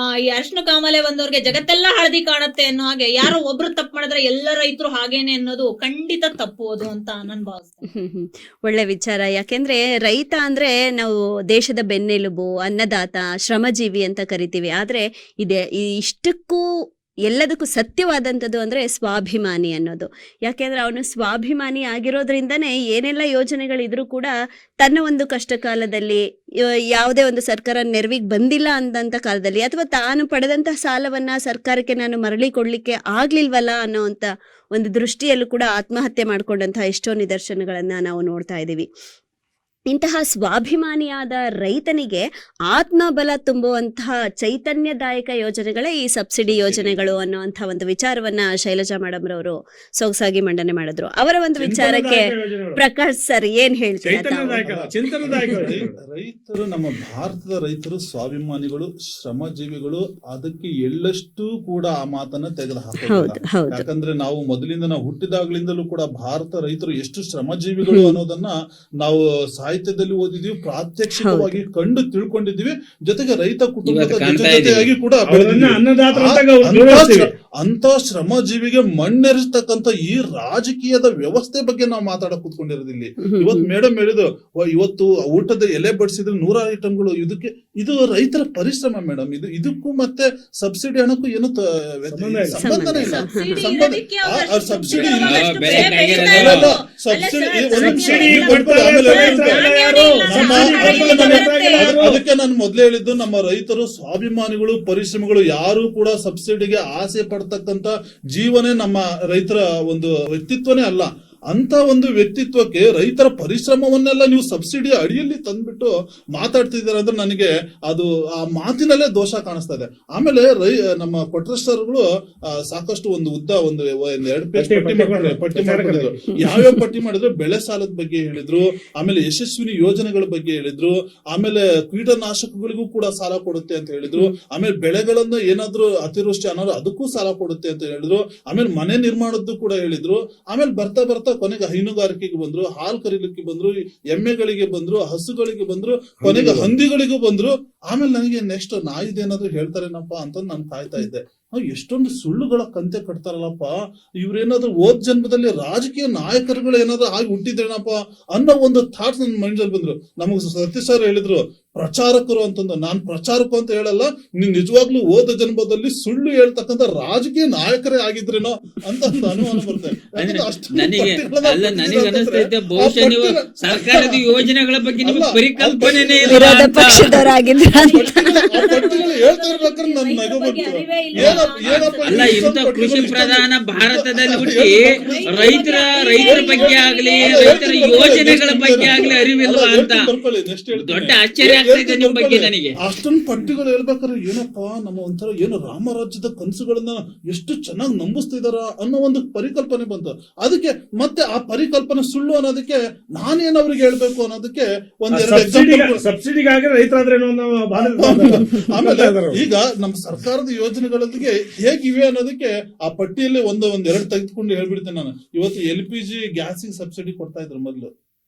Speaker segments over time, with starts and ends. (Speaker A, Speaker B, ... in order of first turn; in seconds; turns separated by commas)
Speaker A: 0.3-7.8, Speaker B: 7.9-16.6, Speaker B: 17.3-26.2, Speaker B: 26.9-38.9, Speaker B: 39.9-54.7, Speaker C: 46.5-47.1, Speaker D: 51.6-52.8, Speaker D: 54.0-56.0, Speaker E: 54.7-99.7, Speaker B: 63.0-63.9, Speaker B: 67.9-68.2, Speaker B: 71.2-71.6, Speaker C: 73.9-74.9, Speaker D: 75.3-77.3, Speaker B: 83.2-83.7, Speaker D: 92.1-92.8, Speaker B: 92.6-93.6, Speaker A: 93.1-102.0, Speaker C: 95.1-96.7, Speaker D: 97.8-102.2, Speaker E: 100.3-122.0, Speaker B: 100.6-101.5, Speaker E: 122.7-174.2, Speaker D: 124.6-126.2, Speaker B: 126.4-126.8, Speaker D: 146.2-146.7, Speaker B: 169.2-169.8, Speaker C: 170.2-177.3, Speaker E: 175.0-185.6, Speaker B: 176.3-178.9, Speaker A: 178.2-182.4, Speaker C: 181.2-190.1, Speaker A: 184.6-189.5, Speaker E: 186.2-206.0, Speaker C: 190.8-192.7, Speaker D: 205.1-209.4, Speaker E: 207.8-217.9